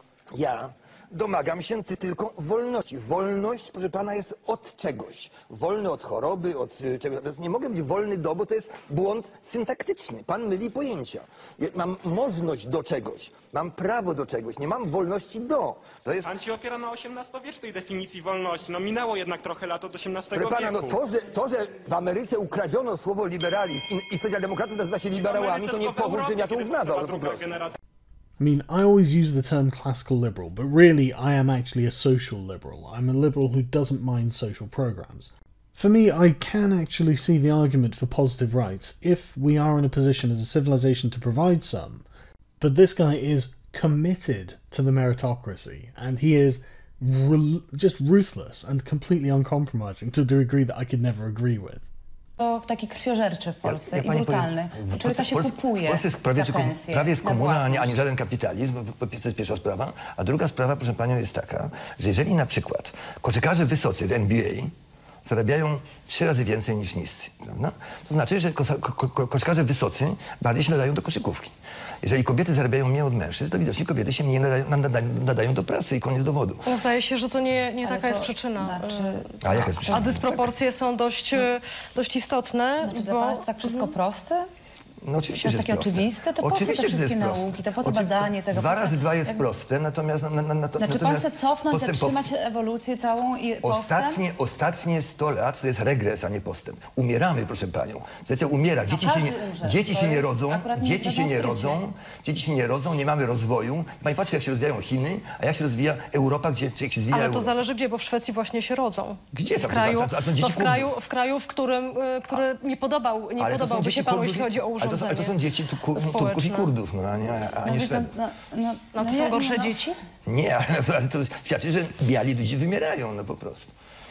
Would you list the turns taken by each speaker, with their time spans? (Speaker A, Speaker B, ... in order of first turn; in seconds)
Speaker A: 0.3-16.3, 20.3-27.5, 53.6-64.7, 65.2-76.7, 79.4-80.6, 85.0-92.3, 93.6-107.5, 109.3-111.0, 113.4-118.2, 120.2-123.7
Speaker B: 16.2-21.0, 25.1-27.8
Speaker C: 28.4-42.0, 42.6-51.8
Speaker D: 52.4-58.1, 77.8-79.6, 82.8-84.5, 85.4-89.4, 90.8-94.2, 98.9-101.8, 117.6-119.7
Speaker E: 76.6-83.9, 107.1-115.4, 115.9-116.7, 118.9-120.0